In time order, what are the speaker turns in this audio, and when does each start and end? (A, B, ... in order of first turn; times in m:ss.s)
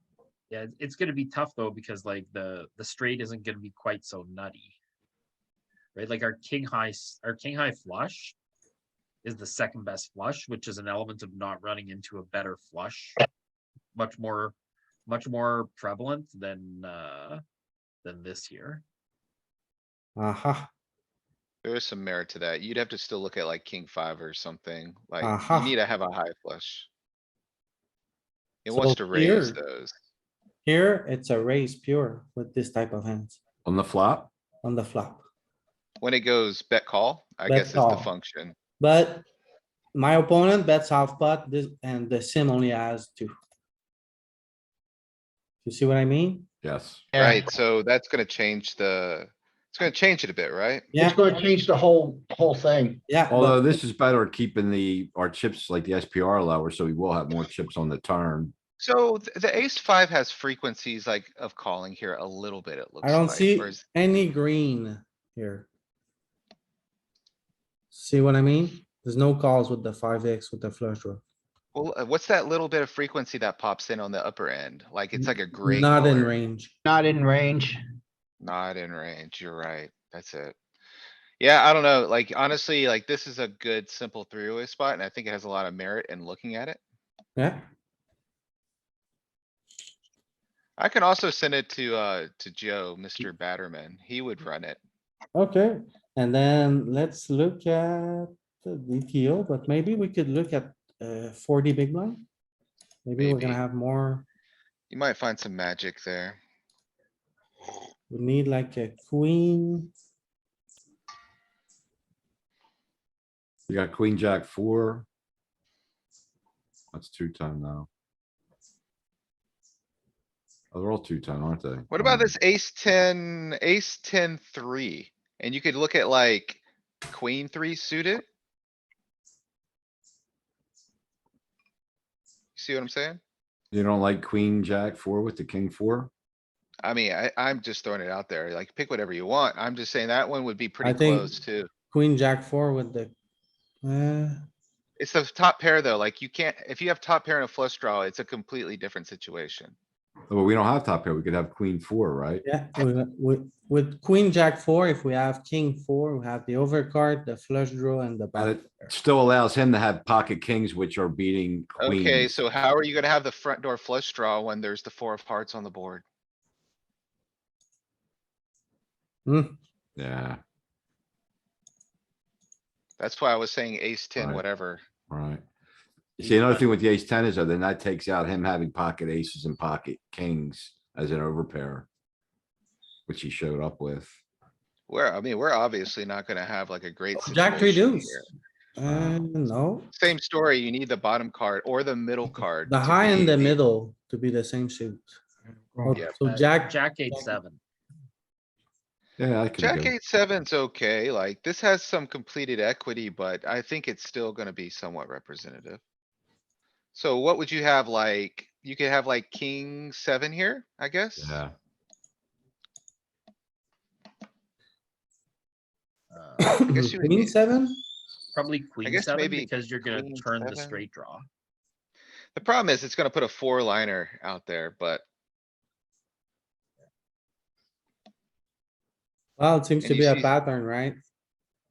0:00.5-0:04.8 A
0:05.9-0:08.4 A
0:09.2-0:13.2 A
0:13.9-0:14.5 A
0:15.1-0:17.4 A
0:18.0-0:18.8 A
0:20.2-0:20.7 B
0:21.6-0:26.9 C
0:25.2-0:25.7 B
0:28.6-0:29.9 C
0:28.7-0:29.6 B
0:30.6-0:33.4 B
0:33.6-0:34.3 D
0:34.6-0:35.2 B
0:36.0-0:38.5 C
0:37.4-0:38.1 B
0:38.8-0:39.2 B
0:39.9-0:43.3 B
0:45.6-0:46.5 B
0:46.6-0:47.0 D
0:47.1-0:47.4 E
0:47.1-0:50.9 C
0:50.9-0:51.2 B
0:50.9-0:53.0 E
0:53.1-0:53.7 B
0:53.3-0:58.5 D
0:58.8-1:04.2 C
1:03.0-1:05.7 B
1:07.9-1:11.2 B
1:11.7-1:16.3 C
1:15.1-1:16.7 B
1:16.8-1:17.8 E
1:18.4-1:20.6 C
1:21.4-1:26.8 C
1:27.4-1:27.6 B
1:30.8-1:34.8 C
1:35.3-1:42.2 B
1:43.0-1:44.2 B
1:43.2-1:43.6 C
1:44.9-1:46.4 C
1:48.1-1:49.9 B
1:53.7-1:55.0 D
1:56.9-1:57.9 D
2:00.7-2:02.3 D
2:01.9-2:08.2 C
2:12.6-2:13.2 C
2:13.7-2:16.1 D
2:16.8-2:21.7 C
2:20.8-2:21.3 B
2:21.9-2:23.1 B
2:23.8-2:24.4 B
2:25.0-2:29.7 C
2:30.3-2:32.4 D
2:32.4-2:38.9 B
2:38.4-2:42.3 D
2:41.8-2:46.0 C
2:49.2-2:49.6 B
2:50.0-2:50.4 D
2:53.0-2:54.8 C
2:54.2-2:54.4 D
2:55.1-2:55.4 D
2:56.2-3:01.9 D
2:56.2-2:56.6 C
3:03.1-3:04.1 D
3:04.9-3:08.3 C
3:07.1-3:08.2 B
3:08.8-3:09.9 B
3:08.9-3:09.2 D
3:09.9-3:13.6 C
3:12.6-3:15.2 B
3:15.8-3:17.3 B
3:16.2-3:17.6 A
3:19.2-3:19.9 D
3:19.6-3:25.8 C
3:26.9-3:31.4 C
3:31.2-3:31.5 D
3:36.1-3:36.6 A
3:36.4-3:37.8 B
3:36.7-3:37.4 C
3:38.3-3:41.2 A
3:38.8-3:40.8 C
3:42.4-3:45.0 C
3:49.4-3:51.0 B
3:49.8-3:50.3 C